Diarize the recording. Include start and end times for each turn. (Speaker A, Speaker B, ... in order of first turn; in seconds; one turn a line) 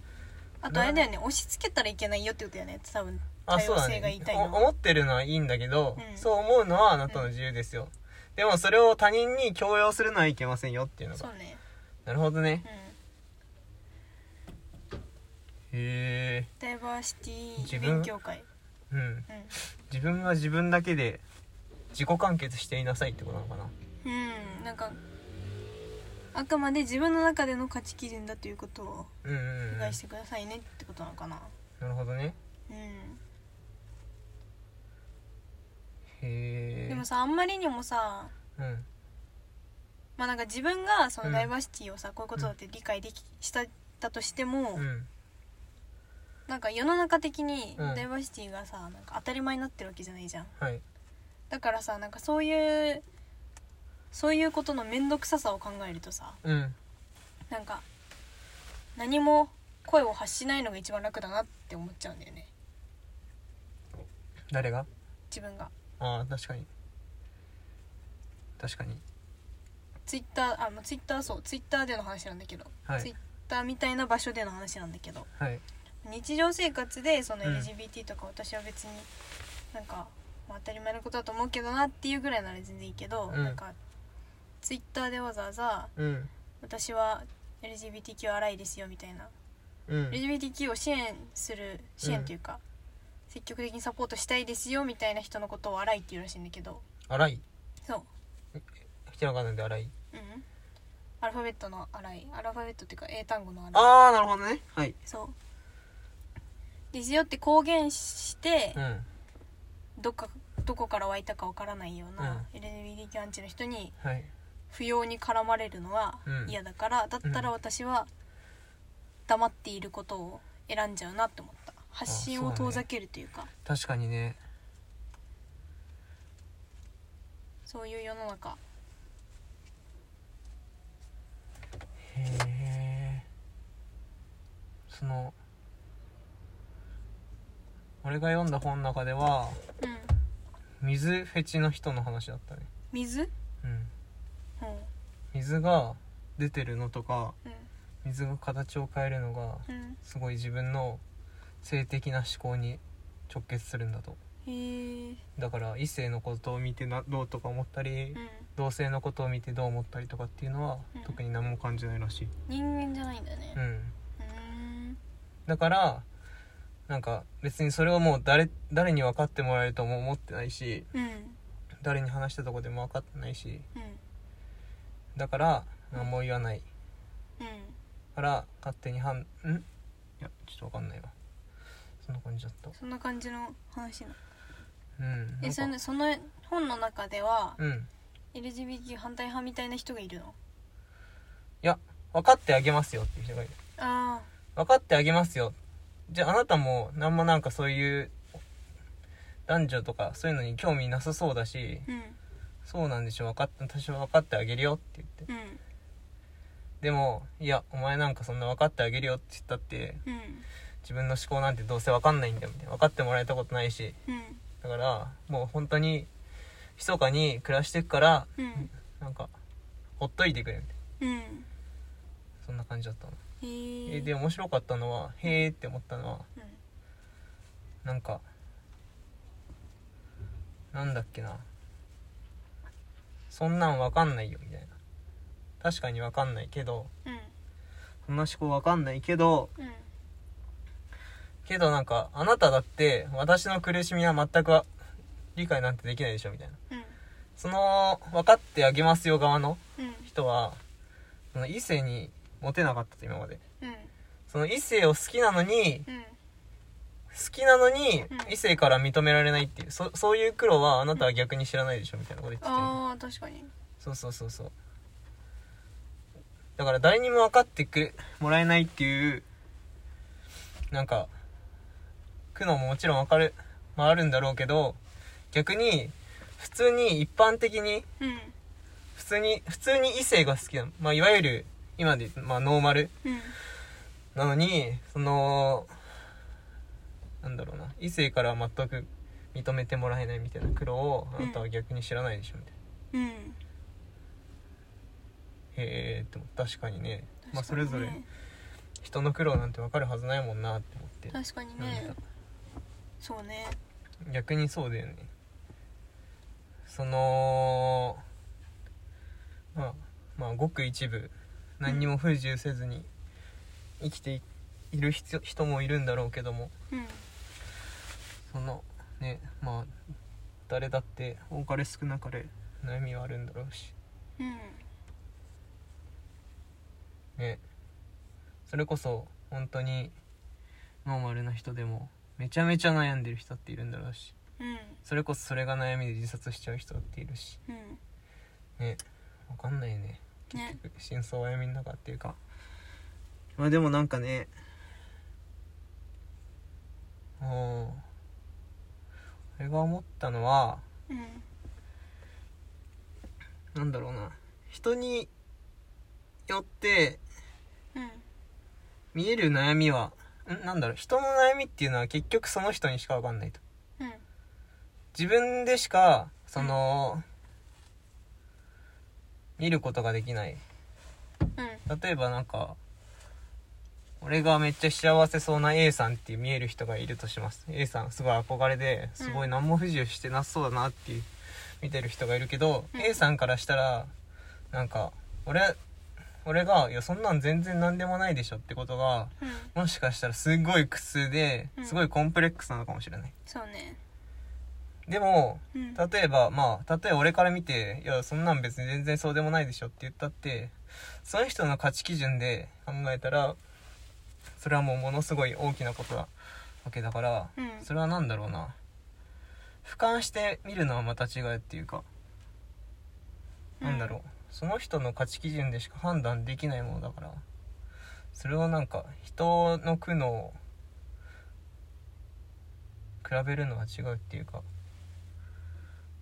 Speaker A: 0.6-4.7
Speaker B: 0.7-1.1
Speaker B: 3.5-11.3
Speaker A: 6.0-6.3
Speaker A: 11.2-11.6
Speaker B: 12.0-12.6
Speaker A: 12.6-12.9
Speaker B: 15.7-16.5
Speaker A: 16.6-18.5
Speaker B: 17.6-18.1
Speaker B: 18.9-21.2
Speaker A: 19.3-19.6
Speaker B: 21.9-23.7
Speaker A: 24.0-25.0
Speaker A: 26.3-29.1
Speaker B: 29.2-30.0
Speaker A: 29.7-31.5
Speaker B: 31.8-32.4
Speaker A: 32.7-33.2
Speaker B: 36.2-37.0
Speaker A: 36.9-38.3
Speaker B: 38.6-38.9
Speaker A: 40.2-44.9
Speaker B: 41.2-41.5
Speaker B: 44.8-45.1
Speaker A: 46.5-50.5
Speaker B: 47.8-48.0
Speaker A: 51.5-53.0
Speaker A: 54.1-56.4
Speaker B: 56.4-56.8
Speaker A: 57.5-57.8
Speaker A: 59.0-62.5
Speaker B: 64.5-64.9
Speaker A: 65.3-65.7
Speaker B: 66.0-66.7
Speaker B: 68.6-69.0
Speaker A: 70.1-75.3
Speaker B: 75.4-75.6
Speaker A: 76.0-79.1
Speaker B: 77.4-77.7
Speaker A: 79.7-83.7
Speaker B: 83.3-83.6
Speaker A: 84.6-85.9
Speaker B: 86.0-86.3
Speaker A: 86.6-89.3
Speaker B: 89.9-90.2
Speaker A: 90.1-92.6
Speaker B: 92.0-92.3
Speaker A: 93.3-96.8
Speaker B: 97.1-97.4
Speaker B: 98.5-99.9
Speaker A: 100.1-100.5
Speaker A: 101.2-103.9
Speaker B: 103.7-105.0
Speaker A: 105.0-105.3
Speaker A: 106.9-108.8
Speaker B: 108.8-109.1
Speaker A: 110.0-113.9
Speaker B: 112.2-112.5
Speaker B: 114.0-114.3
Speaker A: 114.7-118.1
Speaker B: 116.2-116.5
Speaker A: 119.3-123.5
Speaker B: 122.1-122.8
Speaker B: 123.6-124.4
Speaker A: 127.7-128.6
Speaker B: 132.0-133.2
Speaker B: 134.9-135.3
Speaker B: 138.0-139.6
Speaker A: 139.8-140.1
Speaker B: 140.8-142.7
Speaker A: 142.9-143.3
Speaker B: 143.6-143.9
Speaker A: 144.6-144.9
Speaker B: 145.3-147.3
Speaker B: 148.0-151.0
Speaker A: 149.7-150.0
Speaker B: 151.6-154.2
Speaker A: 154.4-155.2
Speaker B: 155.4-162.3
Speaker A: 158.1-158.5
Speaker A: 162.5-163.6
Speaker B: 163.5-163.9
Speaker A: 164.2-165.0
Speaker B: 165.4-166.1
Speaker B: 166.9-170.9
Speaker A: 170.9-171.4
Speaker B: 171.8-173.7
Speaker A: 173.7-174.0
Speaker B: 175.1-176.6
Speaker A: 177.4-177.8
Speaker B: 178.2-179.7
Speaker B: 180.2-181.1
Speaker B: 182.0-182.7
Speaker A: 182.8-184.2
Speaker B: 185.0-185.7
Speaker A: 185.4-187.6
Speaker B: 187.6-187.9
Speaker A: 188.3-190.4
Speaker B: 191.6-193.6
Speaker A: 193.8-194.3
Speaker B: 194.5-195.6
Speaker B: 196.1-198.2
Speaker B: 199.5-201.9
Speaker A: 201.9-202.2
Speaker B: 202.6-205.2
Speaker A: 205.3-205.6
Speaker B: 206.8-210.0
Speaker A: 210.1-210.4
Speaker B: 210.8-214.0
Speaker A: 214.1-214.4
Speaker B: 214.6-216.1
Speaker B: 216.8-219.3
Speaker A: 218.4-218.7
Speaker B: 220.0-220.7
Speaker A: 221.0-221.5
Speaker B: 222.4-223.2
Speaker A: 223.4-224.1
Speaker B: 223.9-226.3
Speaker B: 227.8-228.2
Speaker B: 230.7-231.4
Speaker B: 233.3-234.7
Speaker B: 235.6-236.9
Speaker A: 237.0-237.3
Speaker B: 238.0-239.5
Speaker A: 239.6-239.9
Speaker B: 241.4-244.7
Speaker B: 245.3-246.6
Speaker A: 246.7-247.0
Speaker B: 247.4-250.6
Speaker A: 249.8-250.1
Speaker B: 251.3-253.4
Speaker A: 253.6-253.9
Speaker B: 254.3-255.9
Speaker A: 255.9-256.1
Speaker B: 257.1-262.8
Speaker A: 262.4-263.5
Speaker B: 263.8-264.5
Speaker B: 266.6-269.2
Speaker B: 270.7-271.1
Speaker B: 272.3-274.8
Speaker B: 275.3-277.9
Speaker A: 278.0-278.4
Speaker B: 278.9-282.9
Speaker A: 283.0-283.4
Speaker B: 284.1-285.7
Speaker B: 287.2-292.5
Speaker A: 291.2-291.4
Speaker A: 292.9-293.4
Speaker B: 295.5-298.0
Speaker A: 297.2-298.1
Speaker B: 298.8-302.0
Speaker A: 301.1-301.9
Speaker A: 303.0-303.6
Speaker B: 304.0-305.1
Speaker B: 306.6-308.0
Speaker B: 309.5-312.9
Speaker B: 313.8-316.5
Speaker A: 316.7-317.0
Speaker B: 318.3-319.7
Speaker B: 320.5-323.7
Speaker A: 324.2-324.6
Speaker B: 328.5-329.9
Speaker B: 330.8-334.1
Speaker A: 334.4-334.8
Speaker B: 334.8-337.4
Speaker A: 337.5-337.8
Speaker B: 338.6-342.2
Speaker A: 340.3-340.6
Speaker B: 343.4-344.3
Speaker B: 347.2-347.8
Speaker B: 349.4-350.6
Speaker A: 350.9-351.2
Speaker B: 353.5-355.1
Speaker B: 356.3-357.0
Speaker A: 357.7-358.0
Speaker B: 358.9-363.4
Speaker B: 364.9-367.0
Speaker B: 369.4-370.4
Speaker A: 371.4-371.6
Speaker B: 371.7-372.6
Speaker B: 374.0-381.1
Speaker A: 379.0-379.3
Speaker B: 381.6-383.9
Speaker A: 382.7-383.0
Speaker B: 384.5-385.6
Speaker B: 386.2-393.1
Speaker A: 389.2-389.5
Speaker A: 391.6-391.8
Speaker A: 393.3-393.8
Speaker B: 394.9-403.4
Speaker A: 395.5-395.8
Speaker B: 404.4-406.1
Speaker B: 406.6-408.6
Speaker A: 407.4-407.7
Speaker B: 409.6-411.9
Speaker A: 413.6-413.9
Speaker B: 413.6-417.2
Speaker B: 418.1-420.4
Speaker B: 423.0-424.4